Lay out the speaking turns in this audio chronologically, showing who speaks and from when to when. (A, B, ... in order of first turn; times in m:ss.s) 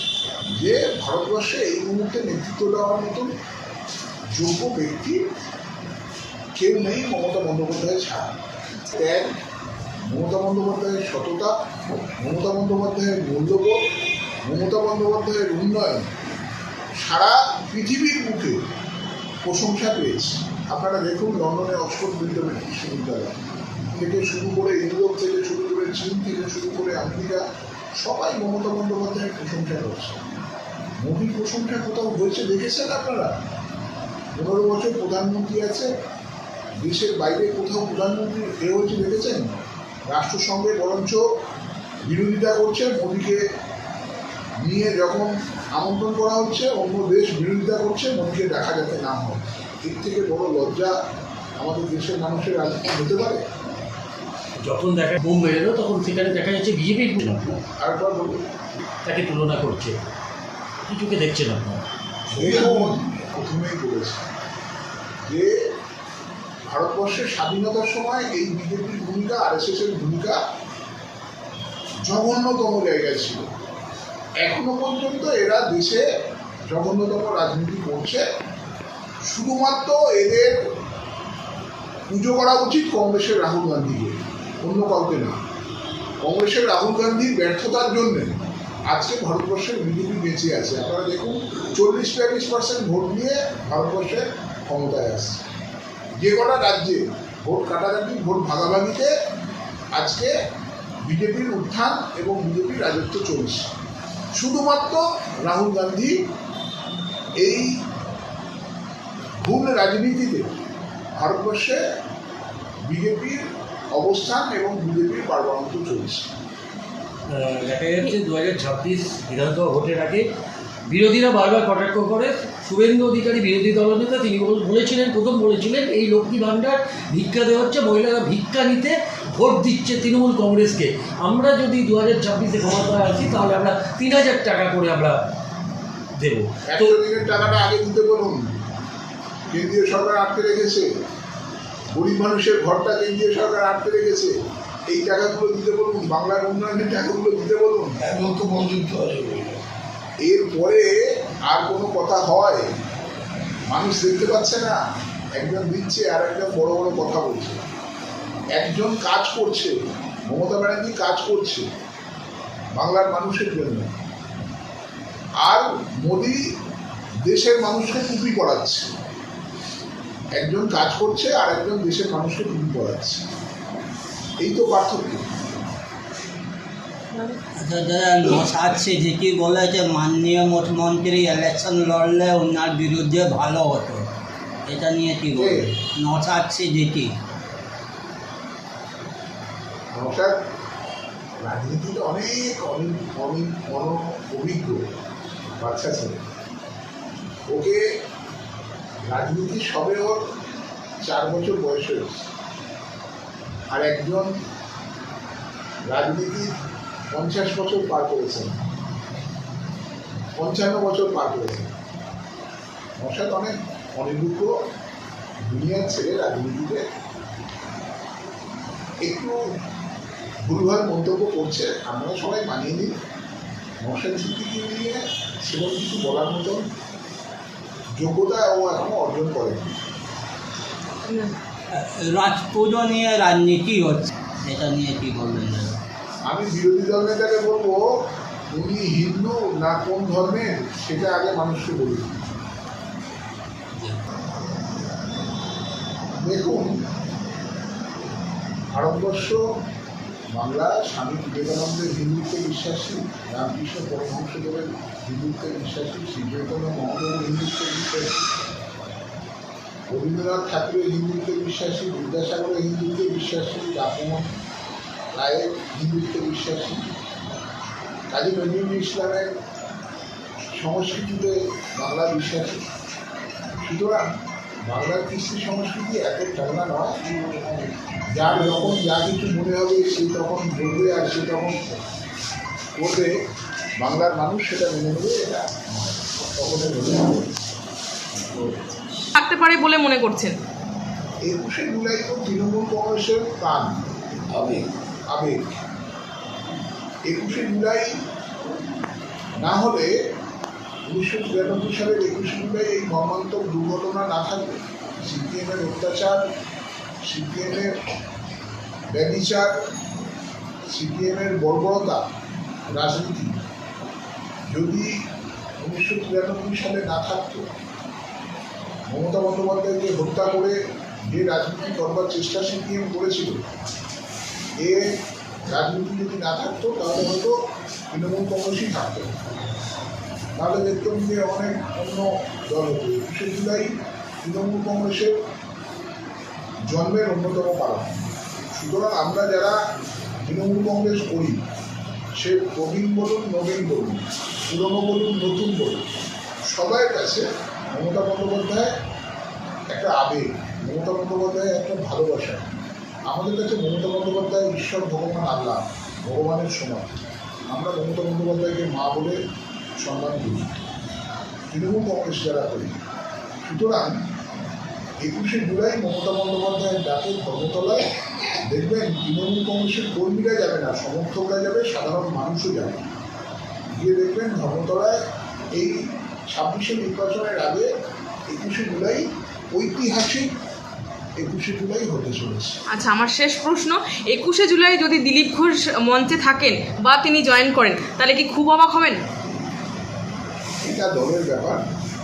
0:00.5-0:03.3 A
0:04.3-0:05.2 A
0:06.6-0:08.3 A
0:08.9-0:09.3 A
0:10.0-0:13.8 A
0:14.4-0:16.1 A
0:17.0-0:18.6 A
0:19.4-0:23.4 A
0:23.9-0:27.4 A
0:28.0-0:30.2 A
0:31.0-0:33.4 A
0:34.4-0:35.9 A
0:36.8-0:41.2 A
0:42.0-0:43.4 A
0:44.6-0:51.0 A
0:51.6-0:53.4 A
0:54.6-0:57.6 B
0:57.8-0:58.4 A
0:59.0-1:00.0 B
1:00.9-1:01.8 B
1:02.3-1:04.2 A
1:02.4-1:03.0 C
1:05.3-1:05.5 A
1:06.7-1:10.4 A
1:12.1-1:13.5 A
1:14.4-1:16.0 A
1:16.7-1:18.2 A
1:19.3-1:20.6 A
1:22.1-1:25.4 A
1:26.2-1:35.4 A
1:36.2-1:39.1 A
1:39.9-1:40.3 A
1:41.0-1:43.7 A
1:44.4-1:46.2 A
1:47.4-1:47.8 A
1:49.4-1:50.5 A
1:51.2-1:51.8 A
1:52.9-1:56.3 A
1:57.3-2:00.2 B
2:00.9-2:15.2 B
2:16.2-2:17.0 B
2:16.7-2:18.5 A
2:19.5-2:20.9 A
2:21.9-2:24.3 A
2:24.9-2:28.0 A
2:28.0-2:29.6 C
2:30.2-2:32.7 A
2:33.7-2:34.8 A
2:35.4-2:37.6 A
2:38.6-2:39.8 A
2:40.3-2:41.7 A
2:42.8-2:43.9 A
2:45.4-2:46.4 A
2:47.3-2:48.9 A
2:50.4-2:53.2 A
2:54.4-2:55.3 A
2:57.1-2:57.4 D
2:57.6-3:04.1 E
3:04.7-3:07.1 E
3:05.4-3:05.7 A
3:09.9-3:10.4 A
3:11.4-3:14.8 A
3:15.6-3:16.2 A
3:17.5-3:17.8 A
3:19.1-3:20.2 A
3:21.0-3:22.2 A
3:23.7-3:24.3 A
3:25.9-3:26.5 A
3:27.1-3:28.6 A
3:30.4-3:31.8 A
3:33.0-3:34.5 A
3:35.4-3:36.8 A
3:39.0-3:39.4 A
3:40.5-3:42.9 A
3:43.8-3:46.7 A
3:48.0-3:49.8 A
3:51.0-3:51.4 D
3:51.7-3:55.8 E
3:56.2-3:57.8 A
3:58.5-4:02.2 A
4:06.2-4:06.8 A
4:08.7-4:09.4 A
4:10.3-4:18.2 A
4:19.9-4:24.3 A
4:25.1-4:26.9 A
4:28.1-4:29.3 A
4:30.5-4:32.7 A
4:33.6-4:34.1 A
4:34.7-4:37.0 A
4:38.1-4:41.6 A
4:42.8-4:43.1 A
4:43.8-4:47.3 A
4:48.2-4:48.5 A
4:49.2-4:50.4 D
4:51.3-4:53.8 A
4:54.4-4:55.6 A
4:57.1-4:57.9 A
4:59.4-4:59.9 A
5:00.9-5:06.2 A
5:07.0-5:07.9 A
5:08.9-5:09.5 A
5:10.6-5:12.0 A
5:12.7-5:13.4 A
5:14.5-5:15.0 A
5:15.6-5:17.5 A
5:18.9-5:23.4 A
5:24.6-5:27.4 A
5:27.9-5:29.2 A
5:30.4-5:35.1 A
5:36.7-5:39.6 A
5:40.2-5:41.4 A
5:42.2-5:45.9 A
5:46.5-5:48.8 A
5:49.7-5:57.0 A
5:57.5-5:59.2 A
5:59.8-6:00.6 A
6:01.5-6:02.8 A
6:03.4-6:04.0 A
6:05.0-6:07.9 A
6:08.4-6:12.9 A
6:13.8-6:15.0 A
6:15.6-6:17.7 A
6:18.3-6:20.3 A
6:21.2-6:22.6 A
6:22.7-6:29.0 D
6:30.6-6:31.6 A